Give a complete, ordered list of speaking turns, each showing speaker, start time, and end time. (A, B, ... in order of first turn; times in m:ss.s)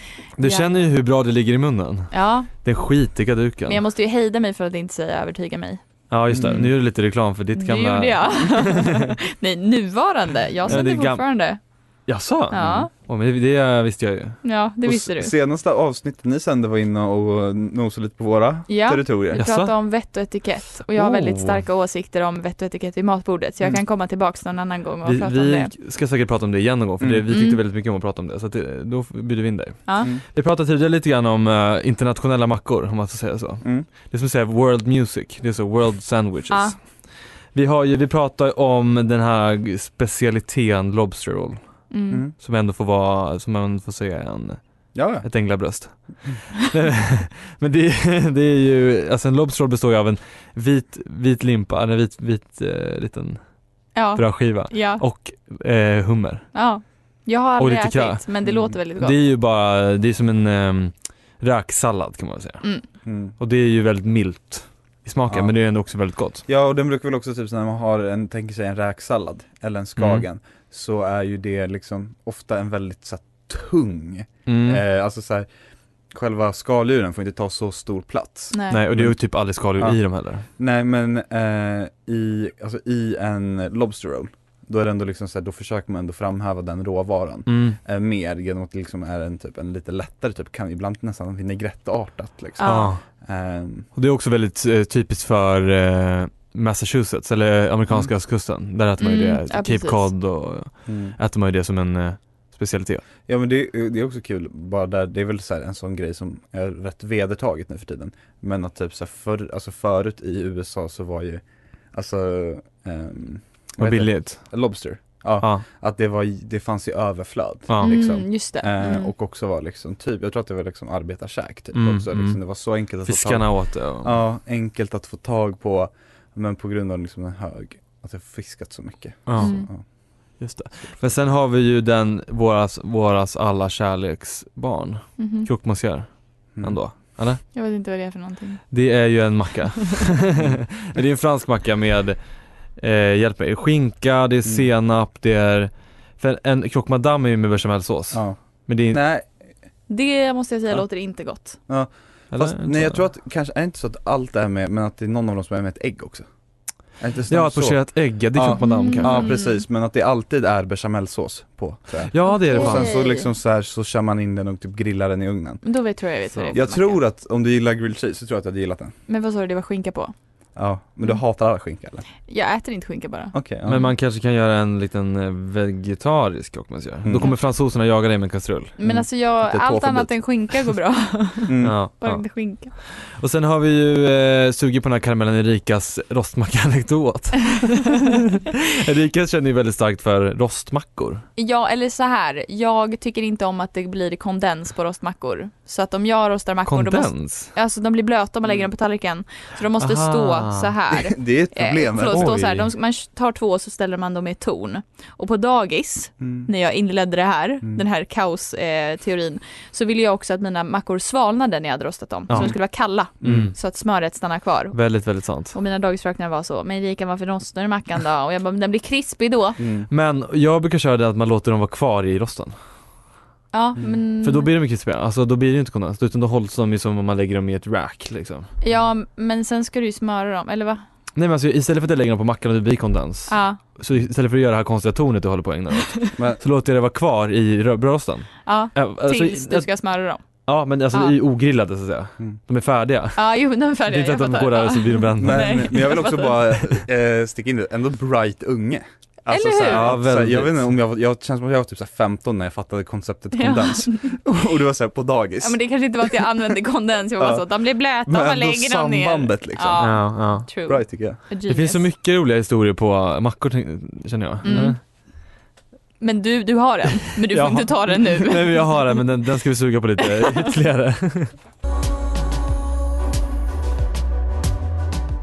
0:00.4-0:03.8 A
0:00.4-0:00.7 B
0:02.1-0:02.5 B
0:03.7-0:05.8 B
0:06.1-0:09.1 A
0:06.3-0:06.7 C
0:07.6-0:11.6 B
0:10.7-0:11.2 A
0:12.1-0:14.9 A
0:12.5-0:12.9 B
0:12.6-0:12.9 C
0:14.4-0:15.3 B
0:15.0-0:19.4 C
0:18.7-0:25.7 B
0:19.4-0:19.7 A
0:21.0-0:21.6 A
0:25.0-0:36.8 A
0:27.0-0:27.3 C
0:27.3-0:27.6 B
0:29.9-0:30.1 B
0:33.6-0:33.9 C
0:36.5-0:36.8 B
0:37.5-0:41.6 A
0:41.9-0:42.2 B
0:42.4-0:44.6 A
0:45.0-0:45.3 C
0:45.2-0:53.4 A
0:54.0-0:55.0 B
0:54.2-0:56.5 A
0:56.5-0:59.2 B
0:57.6-0:58.2 A
0:58.5-0:58.7 C
0:59.0-1:02.6 A
1:03.0-1:03.4 C
1:03.4-1:06.4 A
1:06.5-1:15.5 C
1:10.0-1:10.2 A
1:14.5-1:14.8 A
1:16.1-1:19.2 C
1:18.5-1:18.8 B
1:18.7-1:20.5 A
1:20.6-1:33.9 C
1:27.5-1:27.8 A
1:32.6-1:32.9 B
1:32.6-1:33.0 A
1:34.0-1:43.0 A
1:39.0-1:40.1 B
1:40.9-1:41.2 C
1:43.3-2:03.5 C
1:53.8-1:54.5 A
1:57.7-1:58.0 A
1:57.8-1:59.1 B
2:01.7-2:02.4 A
2:03.0-2:04.2 A
2:04.0-2:09.8 C
2:09.3-2:09.5 A
2:09.4-2:09.7 B
2:10.4-2:17.4 A
2:15.2-2:15.5 B
2:17.5-2:18.6 B
2:18.7-2:22.2 A
2:22.8-2:29.0 A
2:28.1-2:28.4 C
2:28.9-2:29.3 C
2:29.9-2:31.6 B
2:31.7-2:36.3 C
2:32.3-2:33.0 A
2:37.0-2:45.6 C
2:37.3-2:39.3 A
2:38.6-2:39.6 B
2:42.1-2:42.9 A
2:42.2-2:43.3 B
2:45.6-2:47.0 B
2:46.5-2:48.9 C
2:49.1-2:50.1 B
2:50.6-2:52.0 C
2:52.3-2:53.3 B
2:53.3-2:53.8 C
2:53.7-2:58.7 A
2:57.0-2:57.3 C
2:58.8-3:02.7 B
2:58.8-3:00.1 C
3:01.5-3:01.8 C
3:01.6-3:11.2 A
3:11.4-3:34.8 B
3:16.7-3:17.5 A
3:19.8-3:20.7 A
3:21.0-3:22.7 C
3:22.1-3:22.4 A
3:26.2-3:26.5 C
3:32.3-3:32.6 A
3:33.2-3:33.5 C
3:33.2-3:33.5 A
3:34.7-3:35.5 A
3:35.5-3:39.6 B
3:39.6-3:39.9 C
3:39.9-3:42.6 A
3:43.5-3:44.5 B
3:44.2-3:48.5 A
3:48.6-3:50.8 B
3:51.2-3:59.7 A
3:53.3-3:53.6 B
3:58.5-4:00.2 B
4:00.5-4:06.1 A
4:03.2-4:06.4 B
4:05.2-4:16.2 C
4:09.3-4:09.9 B
4:09.5-4:10.7 A
4:13.4-4:14.2 B
4:15.4-4:21.8 B
4:17.2-4:17.5 C
4:18.0-4:20.0 C
4:19.8-4:20.5 A
4:20.7-4:21.2 C
4:21.5-4:24.8 A
4:24.4-4:24.8 B
4:24.5-4:24.7 C
4:26.0-4:28.8 B
4:27.3-4:31.3 A